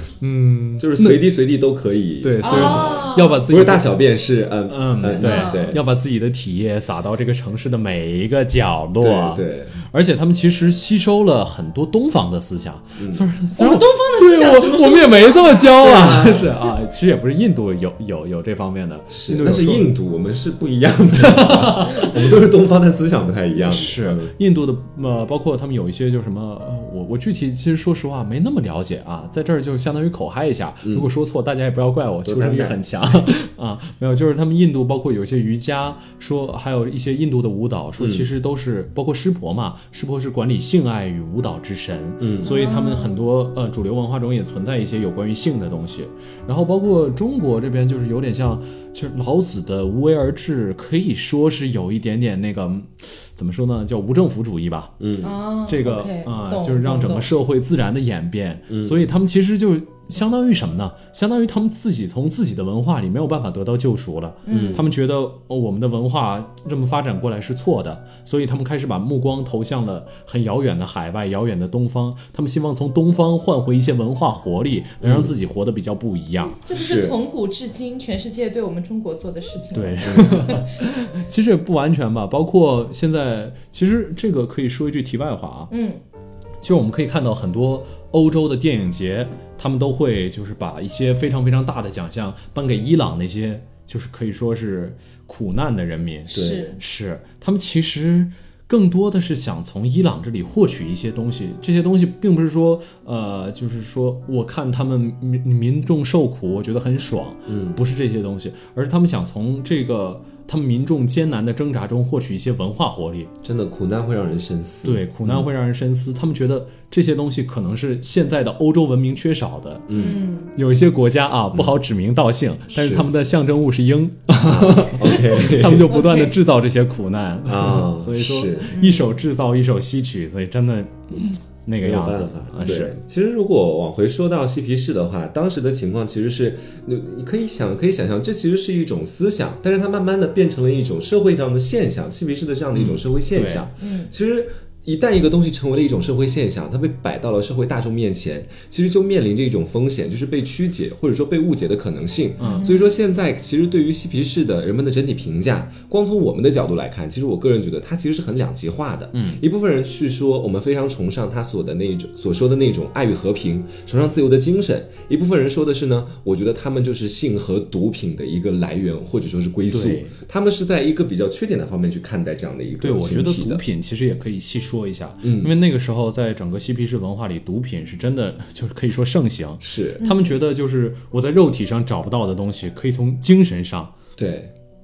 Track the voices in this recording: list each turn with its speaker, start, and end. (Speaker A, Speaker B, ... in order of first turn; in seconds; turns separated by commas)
Speaker A: 0.2-1.3, Speaker B: 0.8-5.8, Speaker A: 2.2-4.0, Speaker C: 2.4-3.4, Speaker A: 4.7-19.9, Speaker C: 5.1-5.8, Speaker B: 9.0-9.8, Speaker B: 13.0-13.3, Speaker C: 13.6-16.4, Speaker B: 15.8-16.5, Speaker B: 19.1-24.3, Speaker A: 21.2-22.2, Speaker A: 23.6-54.9, Speaker B: 32.2-32.8, Speaker B: 38.0-38.3, Speaker B: 42.2-42.5, Speaker C: 42.4-43.2, Speaker B: 55.0-55.3, Speaker C: 55.2-57.3, Speaker A: 55.7-76.6, Speaker B: 58.7-59.0, Speaker C: 64.5-64.8, Speaker B: 64.5-64.9, Speaker B: 75.0-75.3, Speaker C: 76.6-80.7, Speaker B: 76.7-77.2, Speaker A: 79.7-85.7, Speaker C: 85.7-86.0, Speaker A: 86.6-113.3, Speaker C: 96.3-96.8, Speaker B: 96.3-96.7, Speaker B: 107.5-107.8, Speaker B: 113.4-115.5, Speaker A: 114.8-132.9, Speaker B: 119.9-120.2, Speaker C: 120.0-120.5, Speaker B: 122.7-123.1, Speaker B: 124.4-126.0, Speaker C: 125.9-126.3, Speaker B: 127.5-128.8, Speaker C: 128.7-129.1, Speaker B: 131.8-173.6, Speaker A: 142.7-143.7, Speaker C: 143.8-144.1, Speaker A: 152.4-152.7, Speaker C: 152.4-152.9, Speaker A: 159.1-159.4, Speaker A: 169.7-170.2, Speaker A: 172.8-183.9, Speaker B: 175.2-175.5, Speaker B: 179.6-180.0, Speaker C: 180.0-180.3, Speaker B: 184.2-184.5